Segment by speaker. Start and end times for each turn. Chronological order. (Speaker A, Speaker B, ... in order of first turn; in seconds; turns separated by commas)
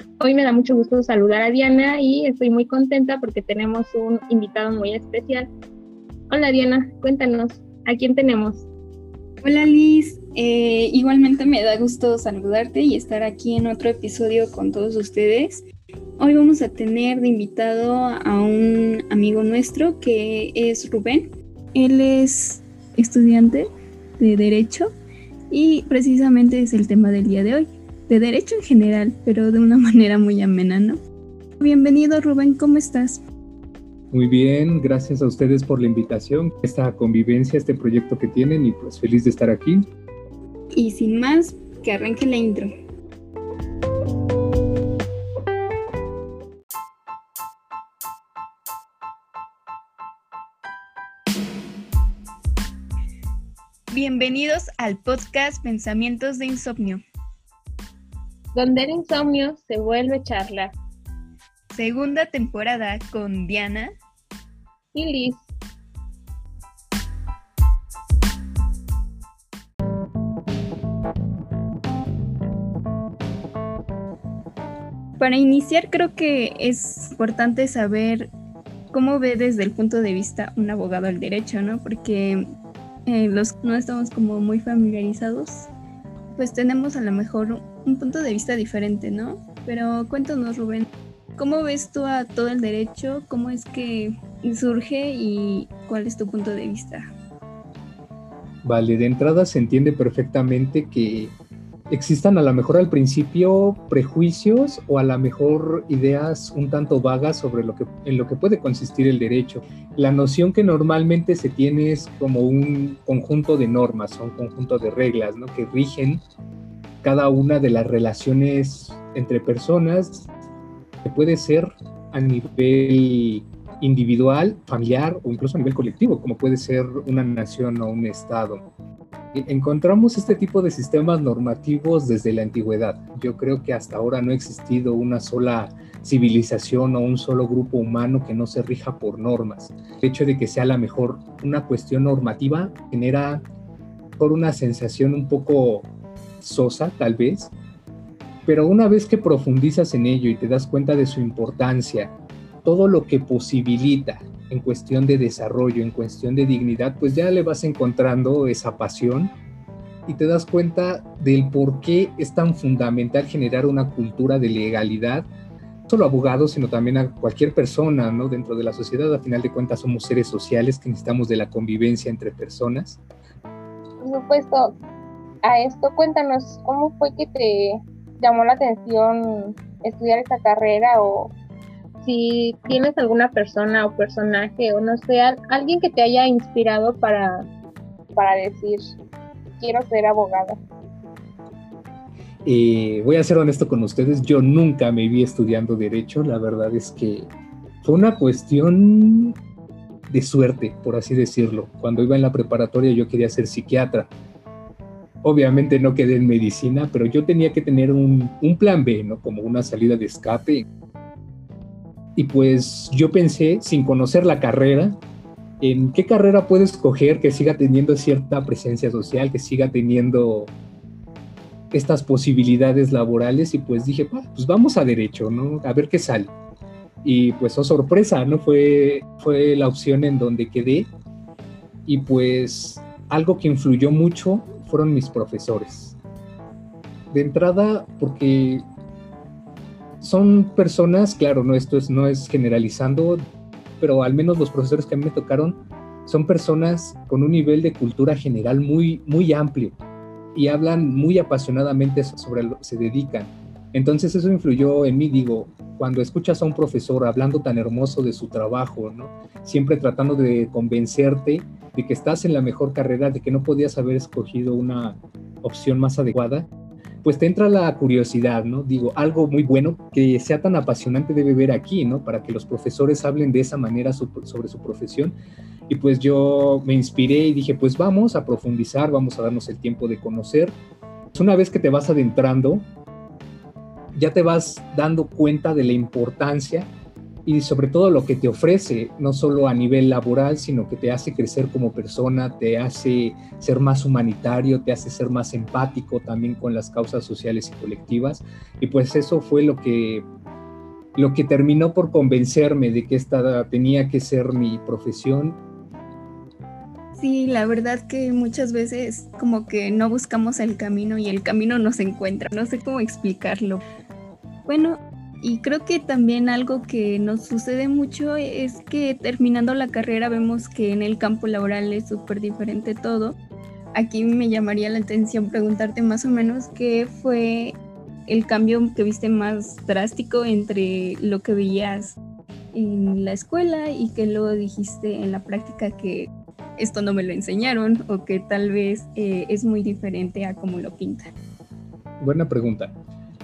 Speaker A: 0.2-5.5, Speaker A: 6.3-8.7, Speaker B: 9.4-15.7, Speaker B: 16.2-24.9, Speaker B: 25.5-31.0, Speaker B: 31.6-33.2, Speaker C: 34.1-39.9, Speaker B: 40.7-42.7, Speaker B: 53.9-57.0, Speaker A: 58.5-60.8, Speaker B: 61.7-64.0, Speaker A: 64.9-65.5, Speaker B: 75.2-78.3, Speaker B: 78.9-82.5, Speaker B: 83.1-85.7, Speaker B: 86.3-90.9, Speaker B: 91.4-97.1, Speaker C: 98.6-101.3, Speaker C: 101.9-116.2, Speaker C: 117.0-120.3, Speaker C: 121.0-128.6, Speaker C: 129.3-143.4, Speaker C: 144.2-145.9, Speaker C: 146.4-147.5, Speaker C: 148.5-159.3, Speaker C: 160.1-165.3, Speaker C: 165.9-173.0, Speaker A: 174.0-174.8, Speaker A: 175.4-181.3, Speaker A: 182.0-187.5, Speaker A: 188.2-188.9, Speaker A: 189.6-190.6, Speaker C: 192.4-197.3, Speaker C: 197.8-199.4, Speaker C: 200.1-204.1, Speaker C: 205.2-210.7, Speaker C: 212.2-215.0, Speaker C: 215.6-220.5, Speaker C: 221.7-226.3, Speaker C: 227.0-230.9, Speaker C: 231.9-236.0, Speaker C: 237.1-238.6, Speaker C: 240.0-243.2, Speaker C: 243.8-249.8, Speaker C: 250.3-266.5, Speaker C: 267.0-275.2, Speaker C: 275.7-280.6, Speaker C: 281.1-282.7, Speaker C: 283.9-286.7, Speaker C: 287.3-300.1, Speaker C: 301.0-305.4, Speaker B: 307.0-313.6, Speaker B: 314.5-323.2, Speaker B: 323.7-332.0, Speaker B: 332.5-341.1, Speaker C: 342.0-342.8